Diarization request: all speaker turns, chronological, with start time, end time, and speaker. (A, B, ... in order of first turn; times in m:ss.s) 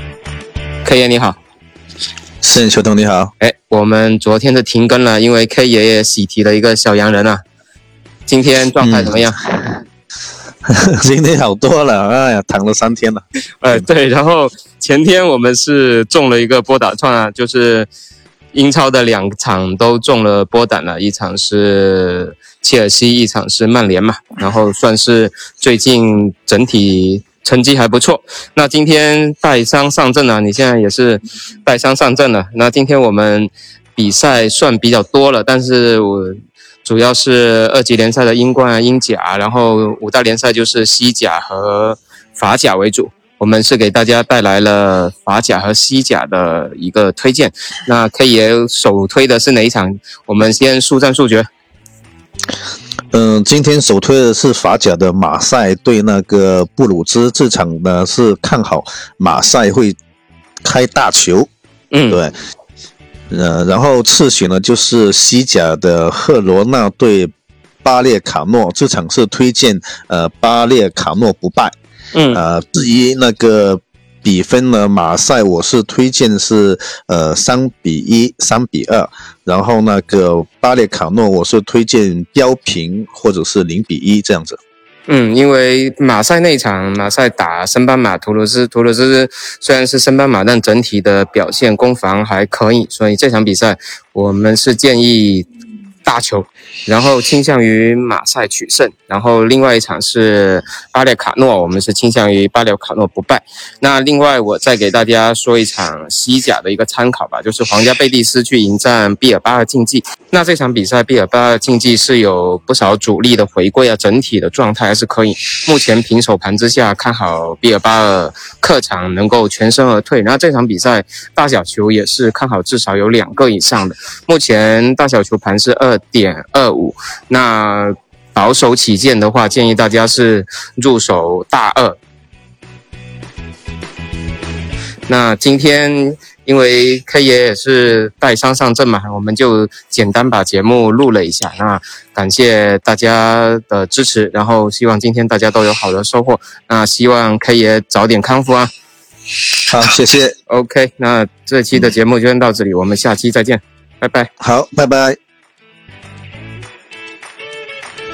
0:00.8-0:01.4 A
0:02.4-0:03.3 B
0:03.4-0:07.4 A
0:08.3-0:09.8 A
0:08.8-0:09.2 B
0:10.7-0:13.8 B
0:13.6-0:17.9 A
0:18.5-0:51.5 A
0:53.1-1:00.0 B
1:00.6-1:01.5 B
1:01.9-1:02.2 A
1:02.1-1:02.3 B
1:03.3-1:07.3 B
1:07.8-1:11.7 B
1:12.1-1:12.4 A
1:12.3-1:24.6 B
1:25.1-1:35.5 A
1:36.0-2:12.0 A
2:15.1-2:28.7 A
2:29.7-2:30.3 B
2:30.5-2:34.3 A
2:34.4-2:35.2 B